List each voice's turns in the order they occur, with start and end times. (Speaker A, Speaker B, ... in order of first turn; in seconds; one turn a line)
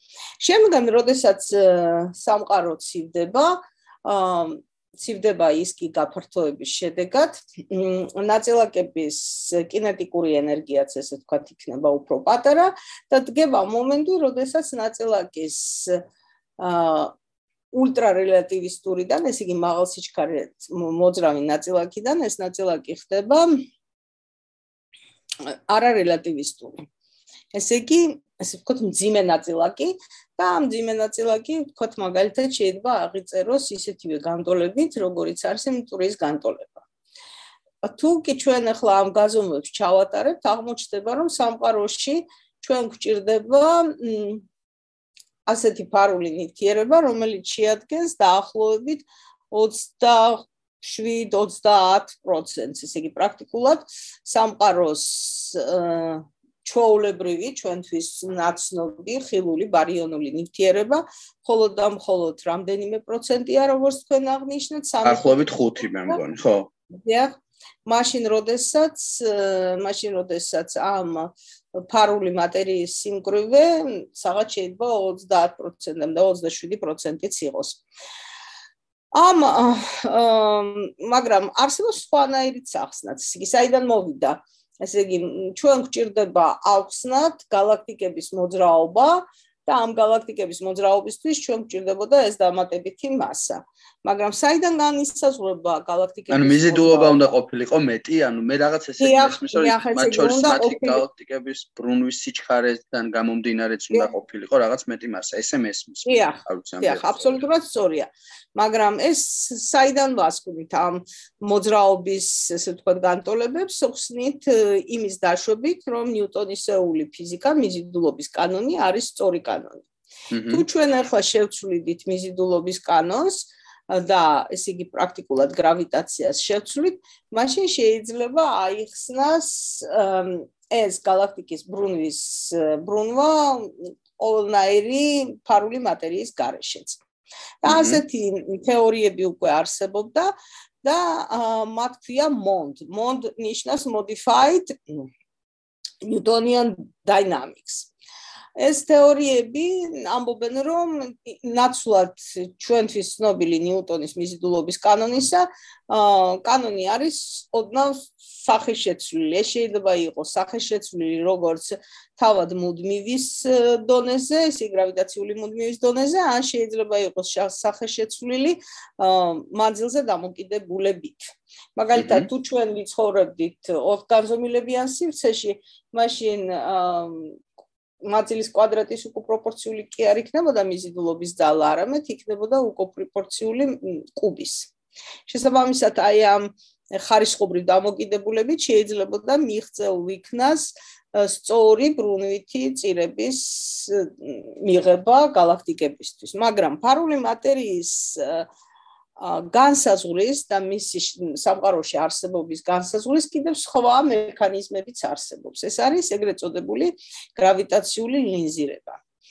Speaker A: 0.4-16.0
Speaker A: 16.6-17.1
Speaker A: 17.7-23.5
Speaker A: 25.4-26.8
Speaker A: 27.5-36.8
Speaker A: 37.8-44.4
Speaker A: 45.5-65.5
Speaker B: 65.0-66.7
Speaker A: 66.9-67.3
Speaker A: 67.8-77.8
Speaker A: 79.1-97.3
Speaker B: 96.3-107.4
Speaker A: 99.0-101.0
Speaker A: 106.0-119.8
Speaker B: 120.3-120.6
Speaker A: 120.5-137.0
Speaker A: 137.6-145.1
Speaker B: 137.7-138.0
Speaker A: 146.0-147.9
Speaker A: 148.6-177.4
Speaker B: 172.0-172.3
Speaker A: 178.0-184.7
Speaker A: 185.3-198.5
Speaker A: 199.2-209.0